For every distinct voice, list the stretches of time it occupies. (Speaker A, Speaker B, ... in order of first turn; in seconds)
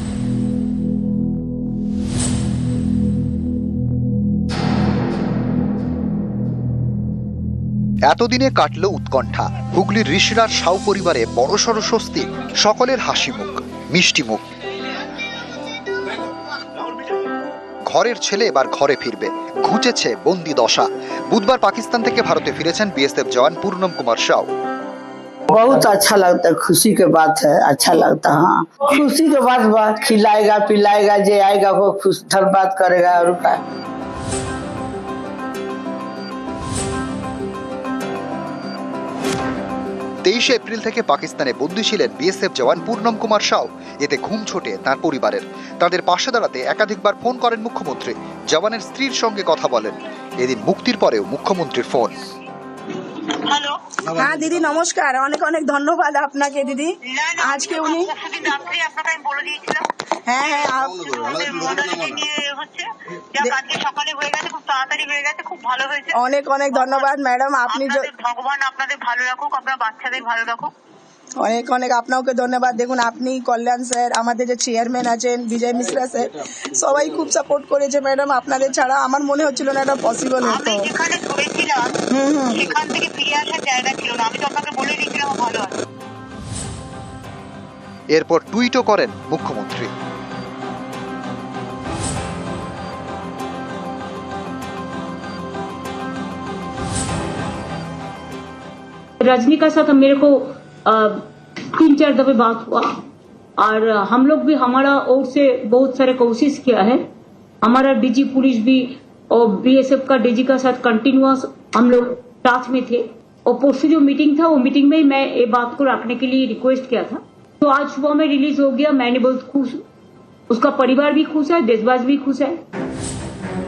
Speaker A: 8.1-14.4, 17.9-24.5, 40.2-52.1, 88.1-89.9
Speaker B: 25.5-33.6
Speaker C: 53.4-53.8, 57.0-59.9, 60.4-67.1, 67.7-70.7, 80.4-81.9, 82.5-85.7
Speaker D: 54.1-58.1, 60.3-61.1, 66.1-68.1, 71.4-80.9, 82.1-82.6
Speaker E: 99.2-103.0, 103.6-107.0, 107.6-119.8, 120.5-122.5